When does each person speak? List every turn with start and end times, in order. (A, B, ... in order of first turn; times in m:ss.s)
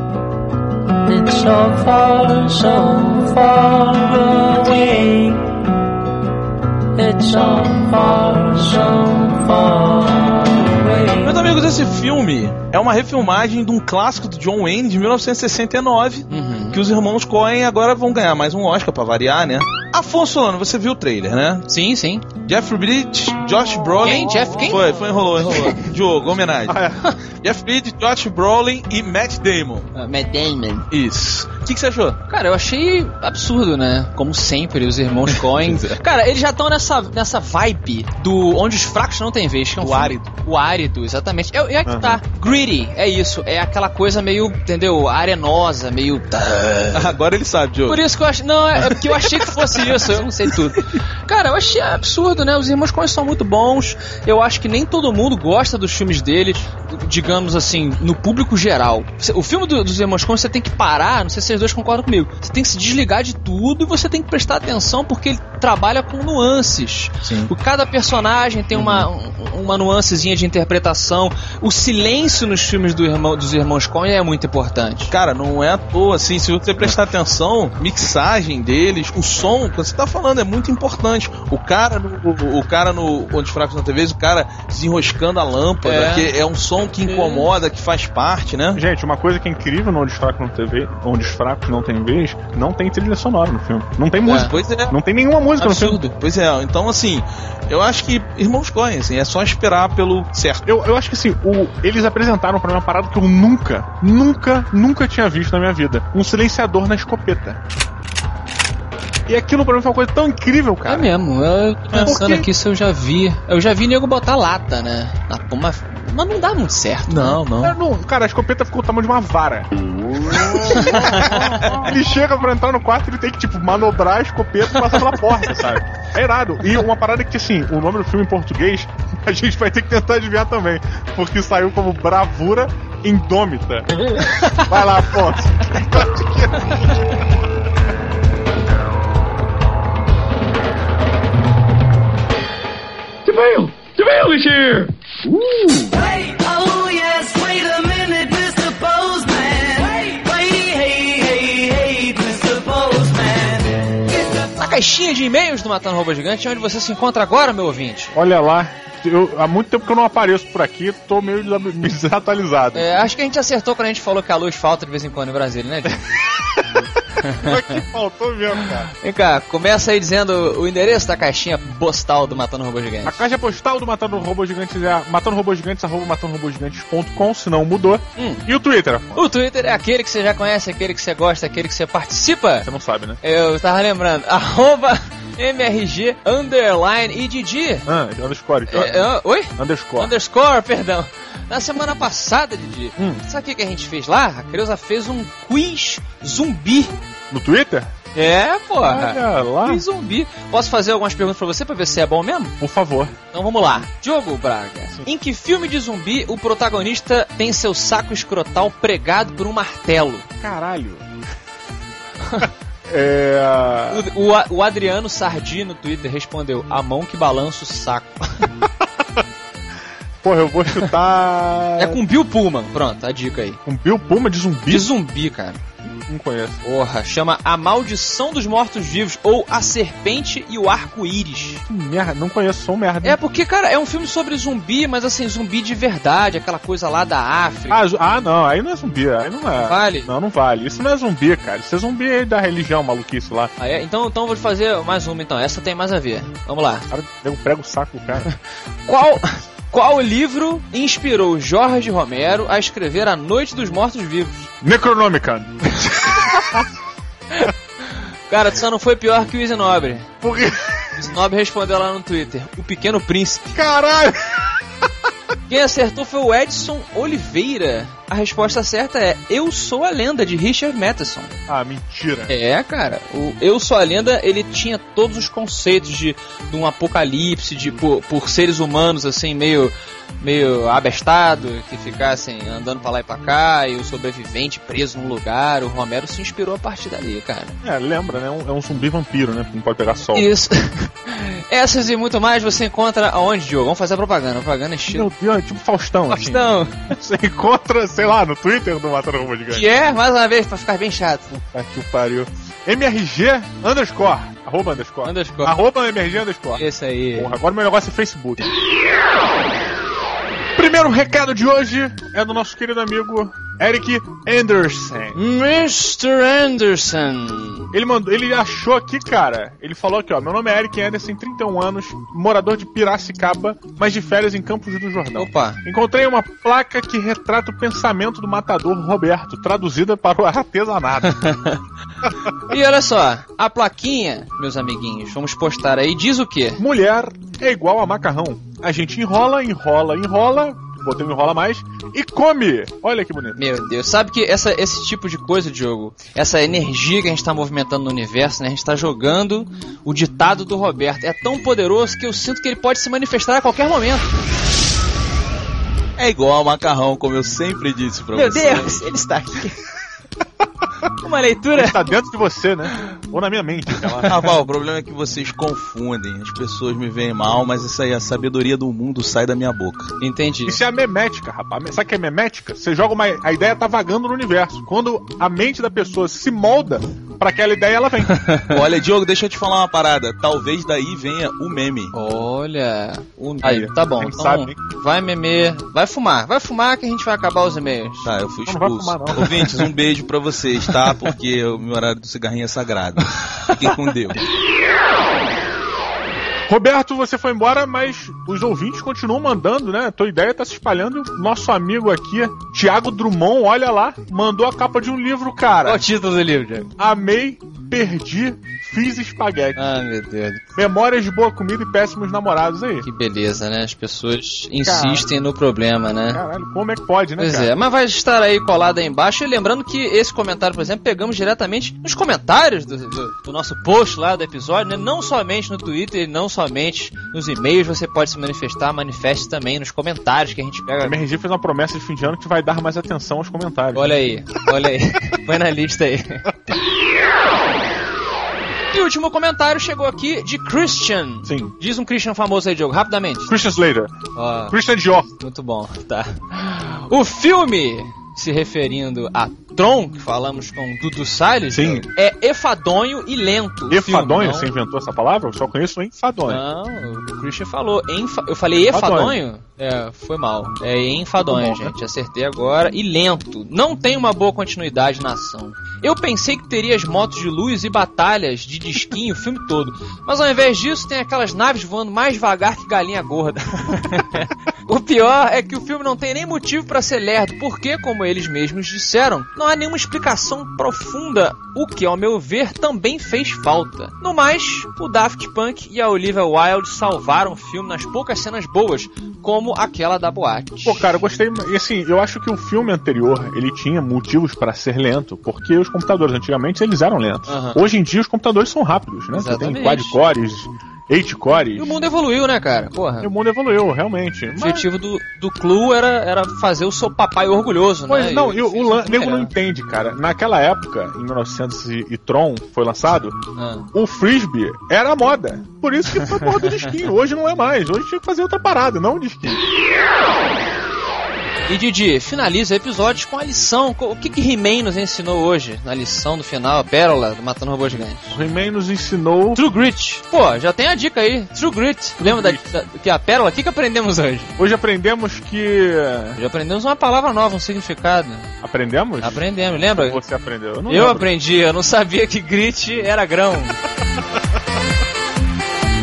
0:01.1-0:05.7 A
0:07.0-0:11.4 A
0:11.2-0:21.7 B
0:16.3-0:16.8 C
0:21.7-0:22.3 C
0:22.4-0:26.8 B
0:24.0-0:24.9 C
0:26.7-0:27.0 D
0:27.4-0:29.9 B
0:30.0-0:30.9 C
0:30.9-0:32.2 B
0:32.3-0:47.2 C
0:35.3-0:36.0 B
0:39.8-0:40.2 B
0:41.9-0:42.2 D
0:46.9-0:48.0 B
0:47.9-1:15.1 C
0:48.8-0:50.1 B
1:07.2-1:07.5 B
1:08.8-1:09.1 B
1:15.1-1:28.8 B
1:25.8-1:26.3 C
1:27.0-1:27.5 C
1:28.8-1:36.0 D
1:34.3-1:34.5 C
1:34.3-1:34.9 B
1:35.6-1:40.6 B
1:35.6-1:36.1 C
1:40.7-1:47.6 D
1:49.3-1:51.1 D
1:50.9-1:57.4 C
1:52.0-1:52.5 D
1:57.1-1:57.8 B
1:57.6-1:59.7 D
2:00.2-2:13.9 D
2:00.7-2:01.6 C
2:14.5-2:17.1 D
2:23.3-2:24.9 E
2:25.6-2:34.0 E
2:34.2-2:38.2 C
2:38.2-2:43.0 D
2:42.7-2:46.0 C
2:47.2-2:47.8 C
2:47.3-2:48.9 D
2:48.6-2:53.2 C
2:53.0-2:59.2 D
2:58.2-2:58.4 C
2:59.2-3:02.7 C
3:02.6-3:03.2 D
3:03.2-3:07.9 C
3:07.9-3:10.1 D
3:08.7-3:16.9 C
3:13.0-3:13.2 D
3:17.3-3:18.0 D
3:18.2-3:22.6 C
3:18.8-3:19.8 D
3:22.6-3:23.2 D
3:23.3-3:30.3 C
3:30.4-3:31.1 D
3:32.4-3:34.1 D
3:33.9-3:38.5 C
3:38.8-3:39.2 D
3:40.2-3:42.0 D
3:41.8-3:43.6 C
3:43.6-3:44.9 D
3:44.7-3:45.6 C
3:46.0-3:46.6 D
3:46.6-3:51.6 C
3:51.7-3:53.2 D
3:53.0-3:57.8 C
3:57.7-4:03.5 D
3:59.6-4:00.1 C
4:03.6-4:06.9 C
4:06.9-4:08.3 D
4:08.9-4:14.5 C
4:14.6-4:16.7 D
4:18.3-4:20.1 C
4:20.2-4:20.9 D
4:21.0-4:23.6 C
4:23.6-4:24.9 D
4:25.5-4:31.3 C
4:31.5-4:32.3 D
4:32.3-4:47.6 C
4:47.6-4:50.3 D
4:50.1-4:55.1 C
4:54.9-4:59.7 D
4:56.1-4:56.9 C
4:59.5-5:01.3 C
5:01.3-5:08.5 D
5:05.0-5:05.6 C
5:06.5-5:07.4 C
5:10.6-5:15.2 D
5:15.2-5:17.7 C
5:17.7-5:31.4 D
5:25.2-5:25.6 C
5:31.0-5:31.6 C
5:32.5-5:36.6 C
5:36.6-5:43.4 D
5:43.4-5:54.1 C
5:56.0-5:58.8 B
5:58.1-5:59.6 C
6:01.0-6:01.9 C
6:01.5-6:04.2 D
6:03.8-6:04.1 C
6:04.1-6:09.9 B
6:10.0-6:10.6 C
6:10.5-6:18.3 D
6:18.1-6:18.5 C
6:18.5-6:21.9 B
6:21.9-6:28.1 C
6:23.4-6:24.6 D
6:28.0-6:34.2 B
6:28.5-6:29.6 D
6:36.5-6:45.8 D
6:45.6-6:46.7 C
6:46.8-6:49.6 D
6:49.6-6:50.4 C
6:50.6-6:52.9 D
6:52.8-6:56.2 C
6:54.6-6:55.1 D
6:56.1-6:57.5 D
6:57.2-7:11.0 C
7:10.8-7:14.0 D
7:13.7-7:16.3 C
7:18.7-7:23.3 C
7:21.2-7:21.5 D
7:23.3-7:24.0 D
7:24.2-7:34.5 C
7:24.5-7:25.1 D
7:31.5-7:31.9 D
7:33.7-7:36.4 D
7:36.3-8:11.0 C
7:38.6-7:39.2 D
7:41.2-7:41.7 D
8:10.6-8:21.7 D
8:17.3-8:17.6 C
8:19.1-8:20.0 C
8:21.6-8:23.1 C
8:23.0-8:24.7 D
8:24.4-8:29.3 C
8:27.9-8:33.2 D
8:33.4-8:33.7 C
8:33.7-8:39.4 D
8:41.5-8:48.2 C
8:48.1-8:49.4 D
8:49.4-8:54.3 C
8:52.0-8:52.5 D
8:54.4-8:56.2 D
8:56.2-8:58.3 C
8:58.4-9:01.1 D
8:59.0-9:00.0 C
9:00.7-9:03.6 C